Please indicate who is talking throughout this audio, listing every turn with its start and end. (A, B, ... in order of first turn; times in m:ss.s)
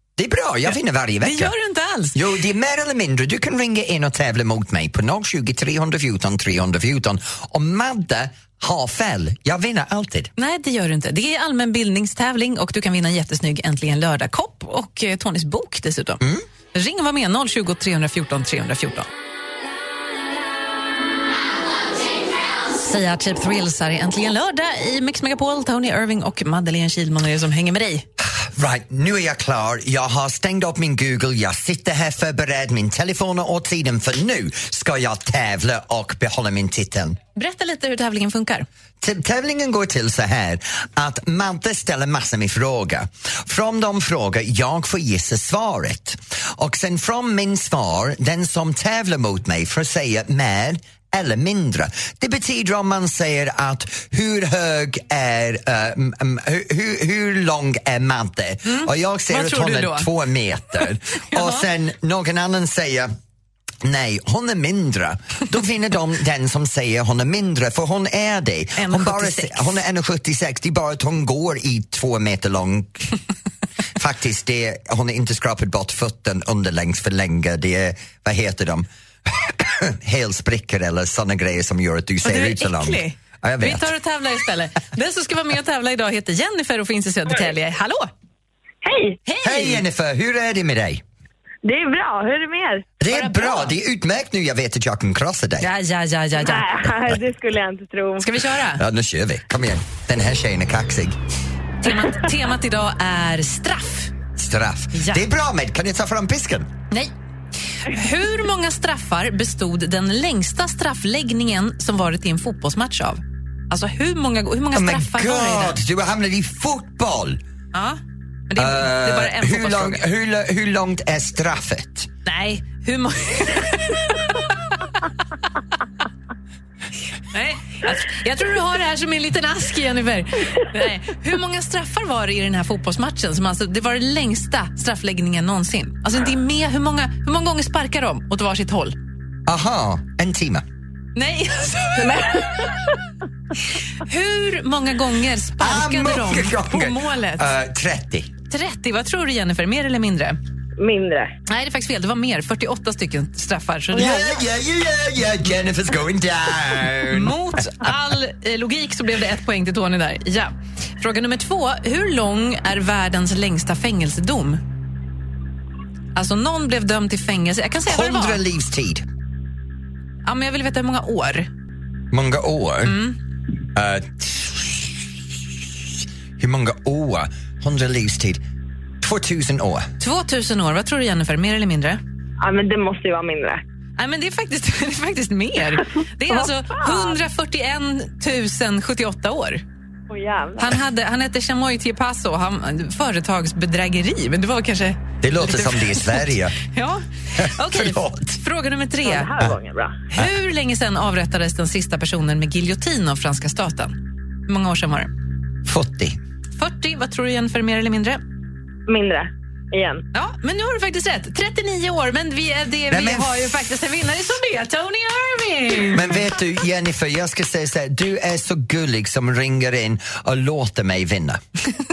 0:00.2-0:01.5 A
0:01.2-0:02.2 B
0:02.1-0:10.3 A
0:10.4-0:19.1 B
0:22.7-0:28.0 B
0:28.2-0:37.2 A
0:37.3-0:38.6 B
0:39.0-1:03.1 A
0:58.6-1:00.1 B
1:01.2-1:01.7 B
1:03.8-1:13.2 A
1:08.8-1:09.8 B
1:14.0-1:23.9 A
1:22.2-1:28.1 B
1:28.8-1:29.2 C
1:29.2-1:29.8 B
1:29.4-1:31.0 A
1:31.6-1:32.8 C
1:33.0-1:35.7 A
1:33.1-1:33.7 B
1:35.6-1:36.7 B
1:36.4-1:38.2 C
1:38.2-1:38.8 B
1:38.8-1:41.2 A
1:41.8-1:44.1 B
1:44.4-1:46.7 A
1:44.9-1:45.2 B
1:47.8-1:55.8 B
1:54.7-1:57.4 A
1:57.7-2:00.0 B
1:58.6-2:02.1 A
2:02.2-2:05.1 B
2:07.3-2:19.0 B
2:19.4-2:20.6 A
2:21.2-2:22.8 B
2:22.1-2:22.4 C
2:23.9-2:27.5 B
2:25.6-2:28.3 A
2:28.5-2:30.4 B
2:30.8-2:31.3 C
2:31.5-2:34.4 B
2:33.9-2:37.4 A
2:37.1-2:44.6 B
2:46.1-2:48.4 B
2:47.9-2:49.0 A
2:50.2-2:51.5 B
2:52.1-2:53.0 A
2:52.8-2:53.2 B
2:53.7-2:58.4 A
2:59.0-2:59.9 A
3:00.0-3:02.0 B
3:02.4-3:03.6 C
3:04.0-3:09.6 B
3:06.3-3:07.1 C
3:10.1-3:10.8 C
3:10.6-3:19.3 B
3:15.2-3:16.6 A
3:17.4-3:18.4 A
3:19.0-3:19.9 C
3:20.1-3:25.1 B
3:25.6-3:26.2 A
3:26.6-3:28.2 B
3:28.9-3:30.0 C
3:30.1-3:36.2 B
3:32.9-3:33.5 A
3:35.9-3:41.4 A